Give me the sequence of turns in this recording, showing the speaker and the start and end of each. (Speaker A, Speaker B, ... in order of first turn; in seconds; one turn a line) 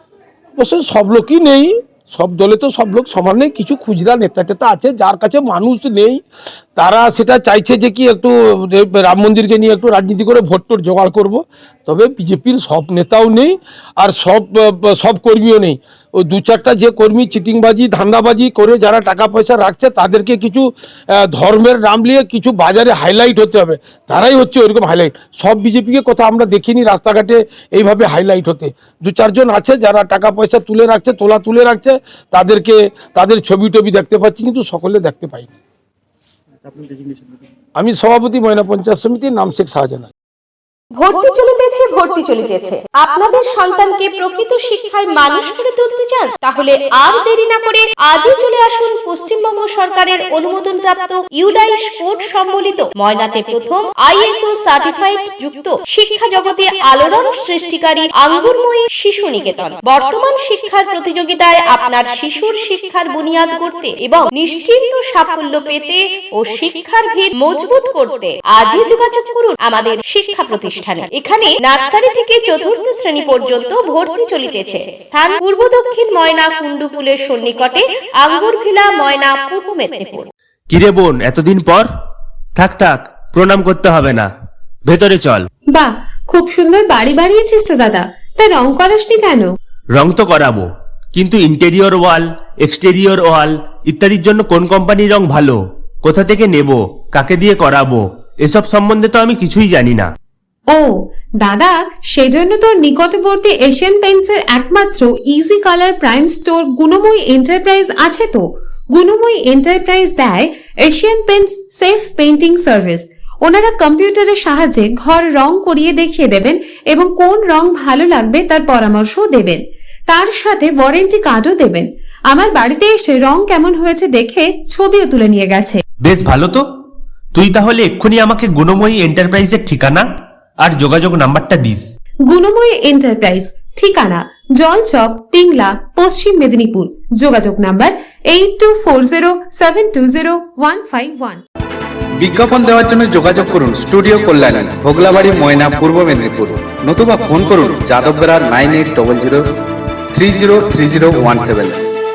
Speaker A: 0.5-6.2
Speaker A: 6.8-35.5
Speaker A: 37.8-40.1
Speaker B: 40.9-80.3
Speaker C: 80.7-81.9
Speaker C: 82.6-84.3
Speaker C: 84.8-85.5
Speaker D: 85.7-89.5
Speaker C: 89.9-100.1
Speaker D: 100.7-125.8
Speaker C: 126.0-126.6
Speaker C: 127.3-130.1
Speaker C: 130.6-131.9
Speaker D: 132.3-141.4
Speaker E: 142.2-149.5
Speaker E: 150.1-151.8